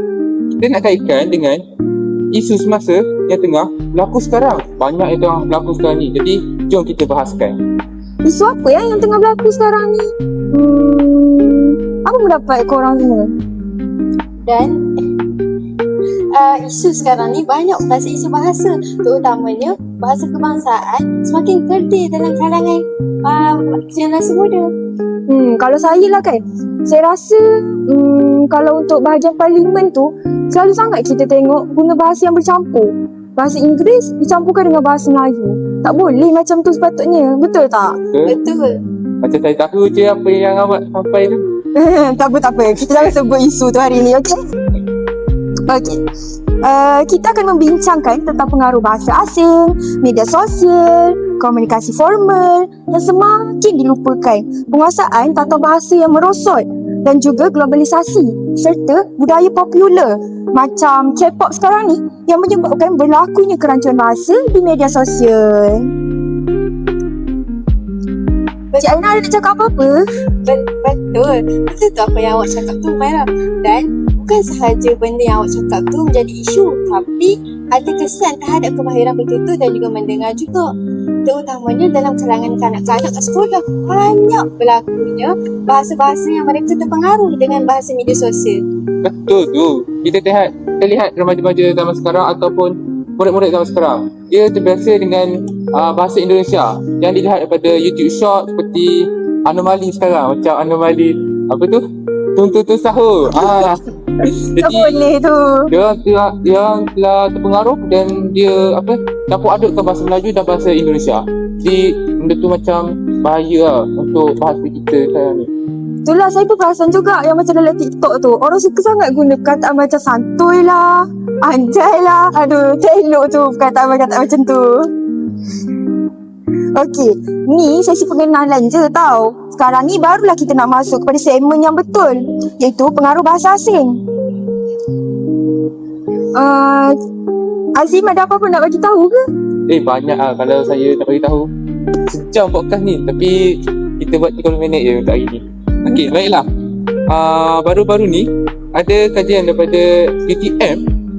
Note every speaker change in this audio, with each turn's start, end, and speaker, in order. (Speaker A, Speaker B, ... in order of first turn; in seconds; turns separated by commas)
Speaker A: 0.6-1.6, Speaker A: 2.3-7.6, Speaker B: 8.2-13.3, Speaker C: 14.4-14.9, Speaker C: 16.3-24.7, Speaker B: 25.3-38.0, Speaker C: 38.2-38.8, Speaker A: 39.2-41.4, Speaker B: 41.7-44.4, Speaker B: 45.7-46.0, Speaker B: 46.6-65.9, Speaker B: 68.8-70.0, Speaker C: 70.4-80.7, Speaker C: 81.2-88.6, Speaker A: 89.0-101.8, Speaker A: 102.3-105.0, Speaker B: 103.3-105.7, Speaker A: 105.7-115.5, Speaker B: 116.0-124.9, Speaker B: 126.7-134.0, Speaker B: 136.3-136.9, Speaker B: 137.8-139.2, Speaker A: 139.7-141.5, Speaker A: 142.1-146.4, Speaker A: 147.1-150.8